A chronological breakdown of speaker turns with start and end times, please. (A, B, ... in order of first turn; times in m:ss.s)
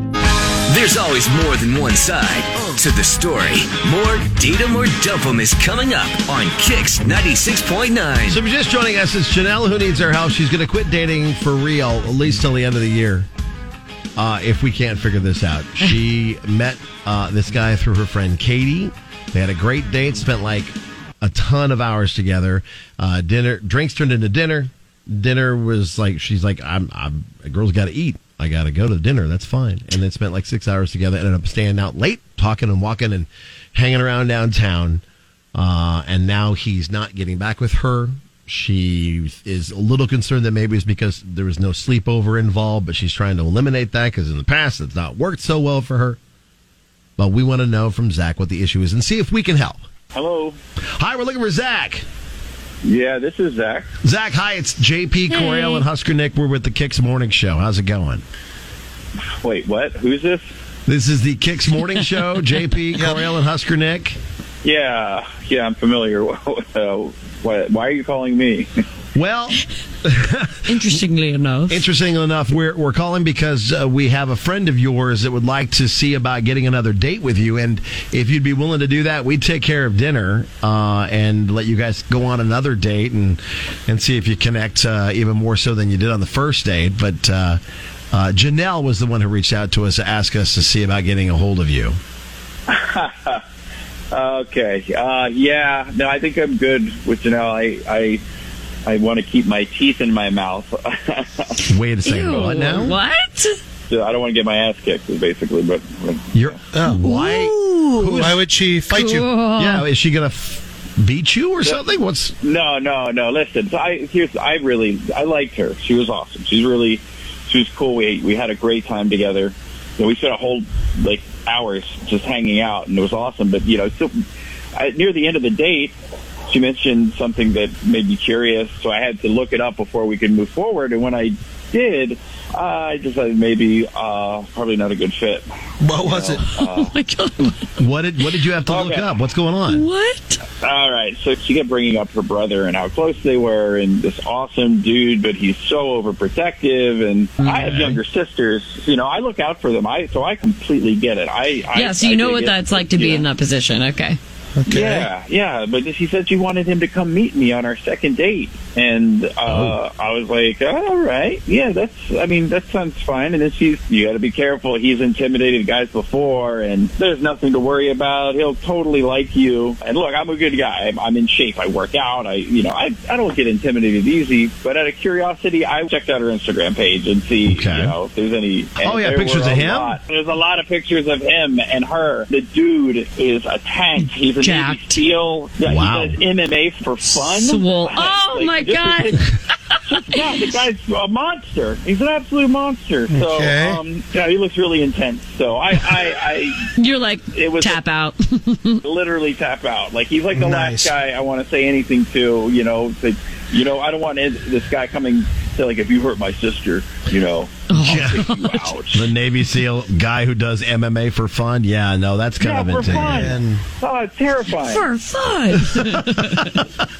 0:00.7-0:08.4 A
0:08.3-0:13.3 B
0:14.2-0:35.0 B
0:35.5-0:46.2 B
0:47.2-0:49.8 B
0:50.1-0:50.6 C
0:51.0-0:52.0 B
0:52.8-0:53.9 C
0:54.0-0:58.2 B
0:55.3-0:55.8 D
0:59.4-1:00.5 C
1:00.9-1:04.2 B
1:02.9-1:03.2 E
1:04.6-1:08.7 C
1:09.1-1:11.0 B
1:10.6-1:11.8 D
1:11.7-1:27.6 B
1:28.1-1:32.0 B
1:32.7-1:33.4 C
1:34.1-1:38.2 C
1:38.8-1:41.6 C
1:41.7-1:43.0 B
1:42.0-1:43.6 D
1:43.9-1:46.6 C
1:46.3-1:48.4 B
1:46.7-1:47.1 E
1:46.9-1:48.3 D
1:48.1-1:49.3 E
1:48.9-1:49.8 D
1:49.6-1:52.4 B
1:52.4-2:04.1 C
2:04.8-2:05.9 C
2:06.5-2:15.5 C
2:15.8-2:16.4 E
2:16.0-2:16.9 C
2:16.4-2:17.8 D
2:17.8-2:19.8 B
2:18.7-2:19.1 C
2:19.7-2:20.4 D
2:20.6-2:33.2 C
2:27.4-2:27.7 D
2:27.5-2:28.0 B
2:31.7-2:34.2 D
2:34.6-2:35.1 E
2:34.7-3:09.2 C
2:39.4-2:39.8 B
2:57.4-2:58.0 B
2:58.8-3:00.0 B
3:04.4-3:05.0 D
3:05.6-3:06.2 B
3:07.2-3:10.2 D
3:09.9-3:16.6 C
3:13.1-3:13.8 E
3:16.8-3:18.8 D
3:17.3-3:17.8 C
3:18.8-3:29.0 C
3:20.3-3:20.9 E
3:27.7-3:28.7 D
3:27.8-3:28.2 B
3:28.9-3:33.3 B
3:32.4-3:34.8 C
3:32.8-3:33.6 E
3:34.6-3:36.6 D
3:35.6-3:36.6 B